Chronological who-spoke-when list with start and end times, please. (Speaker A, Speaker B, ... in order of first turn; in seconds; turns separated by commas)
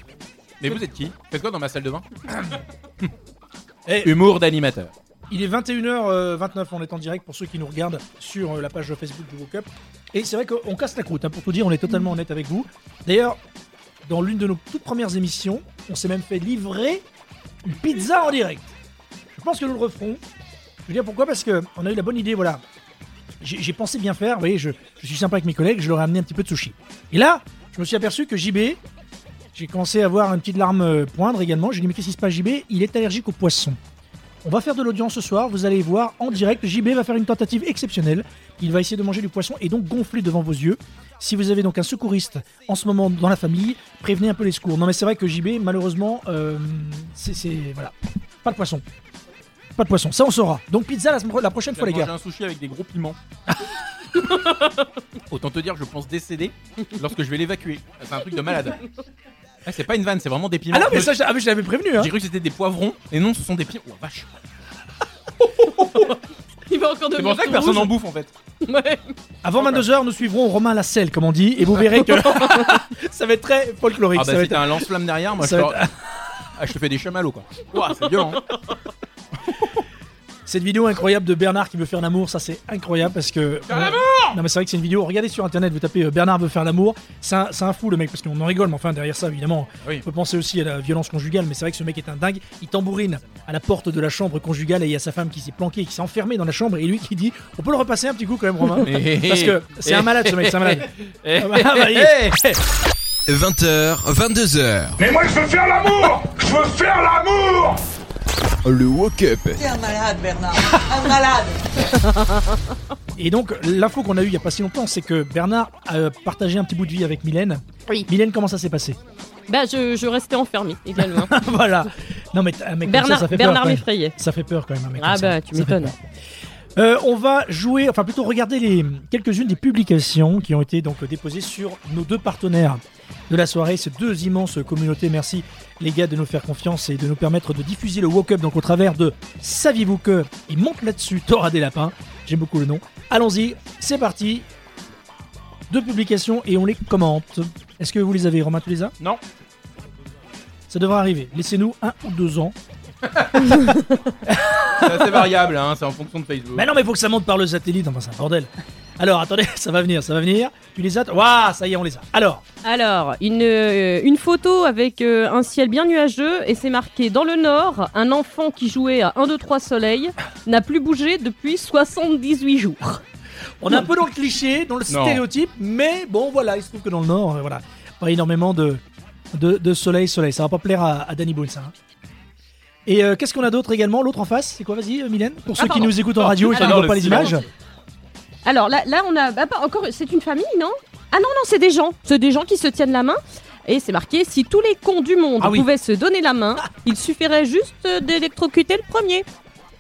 Speaker A: 0.6-2.0, Speaker B: 3.9-4.1, Speaker A: 4.0-4.9, Speaker B: 5.3-13.4, Speaker B: 14.1-17.0, Speaker B: 17.6-18.7, Speaker B: 19.3-20.2, Speaker B: 20.9-22.6, Speaker B: 23.4-28.8, Speaker B: 29.5-33.8, Speaker B: 34.4-47.9, Speaker B: 48.4-48.8, Speaker B: 49.8-52.1, Speaker A: 51.7-53.2, Speaker A: 55.3-58.8, Speaker A: 59.7-61.2, Speaker B: 60.7-62.1, Speaker A: 62.0-64.3, Speaker C: 66.7-67.9, Speaker A: 67.2-68.3, Speaker C: 68.6-69.2, Speaker B: 69.4-74.9, Speaker A: 74.2-75.8, Speaker B: 75.4-75.9, Speaker A: 76.6-78.4, Speaker B: 80.5-102.6, Speaker A: 83.7-84.4, Speaker A: 98.8-102.3, Speaker D: 103.3-105.0, Speaker E: 105.0-107.8, Speaker D: 108.7-109.6, Speaker F: 109.6-111.6, Speaker B: 113.2-119.0, Speaker C: 119.5-121.3, Speaker B: 121.1-126.0, Speaker C: 122.8-124.2, Speaker C: 125.0-125.9, Speaker B: 126.8-144.4, Speaker B: 145.7-148.9, Speaker B: 150.7-152.6, Speaker B: 154.3-155.3, Speaker A: 154.8-156.7, Speaker B: 156.6-162.4, Speaker C: 162.6-173.0, Speaker B: 173.6-178.8, Speaker A: 174.9-175.2, Speaker B: 179.3-181.7, Speaker B: 182.9-187.5, Speaker C: 185.6-185.9, Speaker A: 186.2-187.4, Speaker C: 186.5-187.4, Speaker C: 188.4-199.3, Speaker B: 195.4-195.7